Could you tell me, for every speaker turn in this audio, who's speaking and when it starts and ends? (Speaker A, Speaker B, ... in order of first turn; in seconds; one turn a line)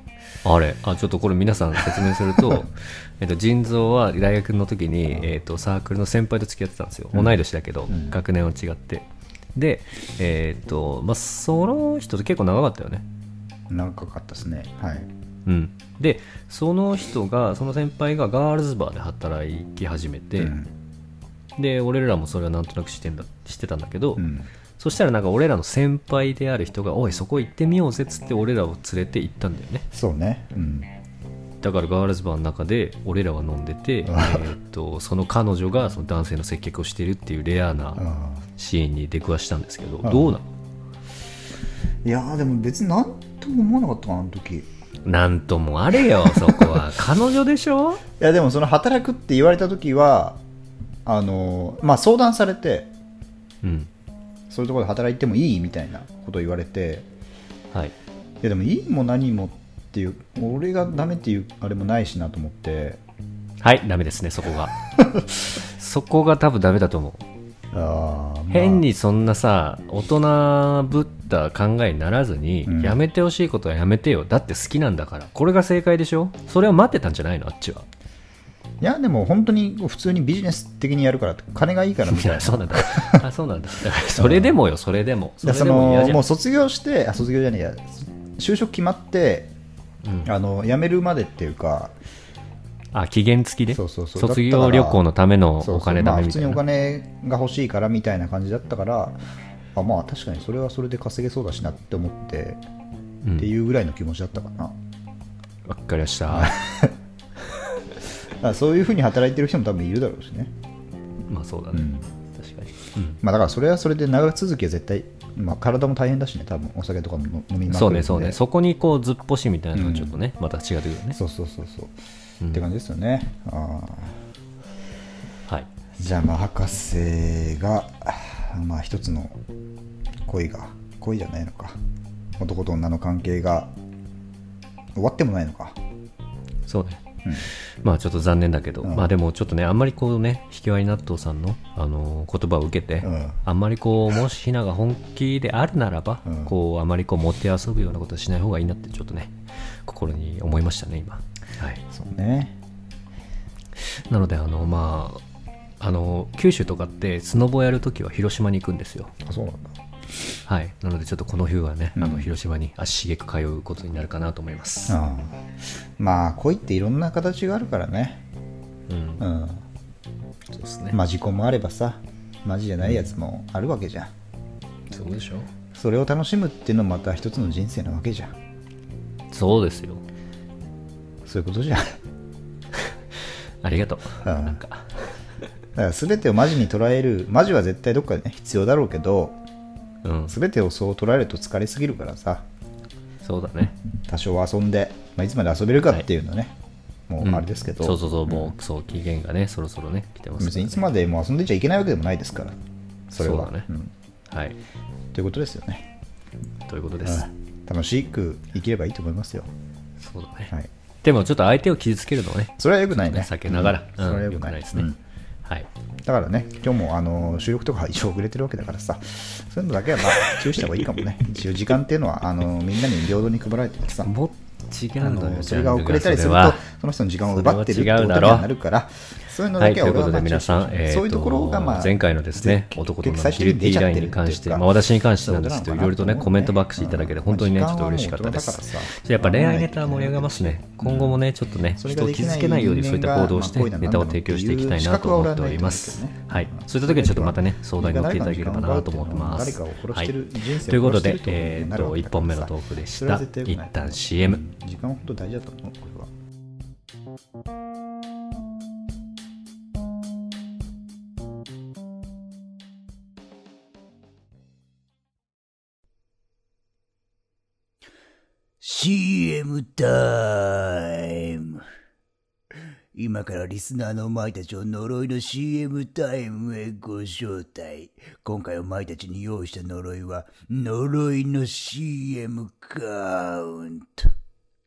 Speaker A: 0.5-13.1
Speaker B: 7.9-8.2
Speaker B: 13.7-15.1
Speaker A: 15.5-20.6
Speaker B: 20.4-20.7
Speaker A: 21.6-24.3
Speaker B: 24.2-24.5
Speaker A: 24.8-29.9
Speaker B: 29.9-30.9
Speaker A: 31.6-38.0
Speaker B: 34.1-34.5
Speaker B: 38.0-38.4
Speaker A: 38.6-40.5
Speaker B: 40.0-40.4
Speaker B: 42.0-44.7
Speaker A: 45.0-48.0
Speaker B: 46.2-46.8
Speaker B: 48.2-50.4
Speaker B: 51.1-52.9
Speaker A: 53.6-53.9
Speaker B: 54.5-57.1
Speaker B: 58.4-63.0
Speaker A: 63.6-64.8
Speaker A: 65.5-67.2
Speaker B: 67.7-68.9
Speaker A: 68.5-77.9
Speaker B: 72.7-73.0
Speaker B: 78.8-83.2
Speaker A: 82.1-86.2
Speaker B: 84.2-84.6
Speaker B: 85.4-89.5
Speaker A: 90.0-90.3
Speaker B: 90.2-92.0
Speaker A: 92.9-96.6
Speaker B: 93.7-95.0
Speaker B: 95.6-99.2
Speaker B: 99.8-102.6
Speaker A: 103.2-103.5
Speaker B: 103.4-104.8
Speaker A: 105.7-106.6
Speaker B: 106.3-106.9
Speaker B: 108.4-110.5
Speaker A: 111.3-113.2
Speaker B: 111.7-112.1
Speaker B: 113.2-118.4
Speaker A: 117.7-121.2
Speaker B: 119.8-120.2
Speaker B: 121.2-122.0
Speaker A: 122.4-122.7
Speaker B: 122.5-124.2
Speaker B: 126.0-129.4
Speaker B: 130.2-131.8
Speaker B: 132.4-133.7
Speaker B: 134.9-135.8
Speaker A: 136.7-151.8
Speaker B: 138.8-139.1
Speaker B: 143.0-143.4
Speaker B: 146.3-146.5
Speaker B: 151.9-152.6
Speaker A: 153.8-155.2
Speaker A: 155.8-159.2
Speaker B: 159.2-159.8
Speaker A: 160.5-165.0
Speaker B: 162.0-162.3
Speaker B: 164.9-168.2
Speaker A: 168.9-169.2
Speaker B: 169.2-169.6
Speaker A: 170.5-171.0
Speaker B: 170.9-174.1
Speaker A: 174.9-175.5
Speaker B: 175.7-178.3
Speaker A: 179.3-180.0
Speaker B: 181.2-182.0
Speaker A: 183.6-185.0
Speaker B: 184.2-184.6
Speaker B: 185.8-189.4
Speaker A: 190.0-190.3
Speaker B: 190.3-192.4
Speaker A: 193.2-193.8
Speaker B: 194.1-196.6
Speaker B: 197.1-198.5
Speaker A: 197.2-200.9
Speaker B: 200.4-202.6
Speaker B: 203.1-203.9
Speaker A: 203.2-203.7
Speaker A: 204.3-204.6
Speaker B: 205.1-205.9
Speaker A: 206.7-207.3
Speaker B: 207.0-209.5
Speaker A: 210.0-210.5
Speaker A: 211.0-214.9
Speaker B: 212.6-215.0
Speaker B: 216.1-224.1
Speaker A: 224.0-226.6
Speaker B: 225.0-241.2
Speaker A: 227.2-228.5
Speaker A: 229.6-250.1
Speaker B: 241.8-256.1
Speaker A: 250.7-254.4
Speaker C: 268.6-271.6
Speaker C: 272.9-284.1